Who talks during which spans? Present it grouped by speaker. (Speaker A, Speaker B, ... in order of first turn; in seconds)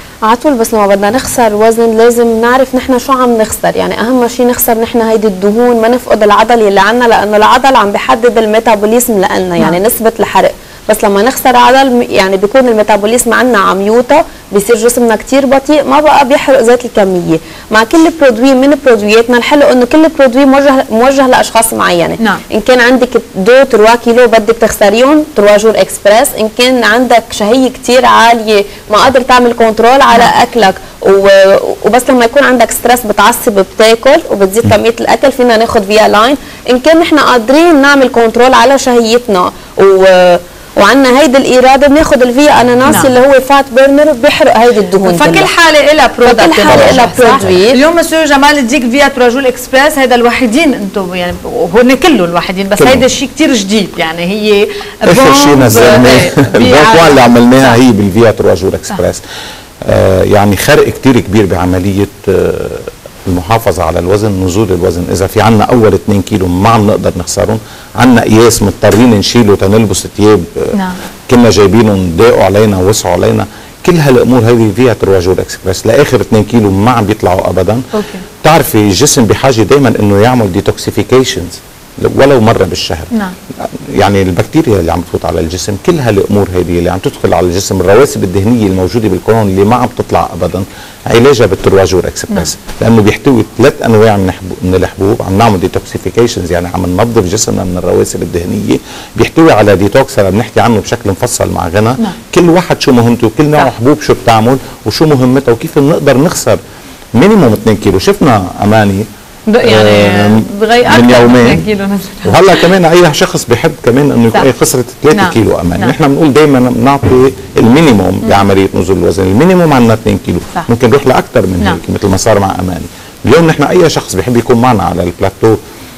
Speaker A: 0.3-45.5, 46.2-47.8
Speaker B: 45.0-57.8, 77.9-78.2, 109.5-112.4, 115.1-115.9
Speaker C: 46.7-47.6, 52.8-53.0, 55.1-59.2, 59.8-70.8, 71.3-77.9, 78.4-106.6, 107.2-109.1, 109.6-111.7, 112.2-125.6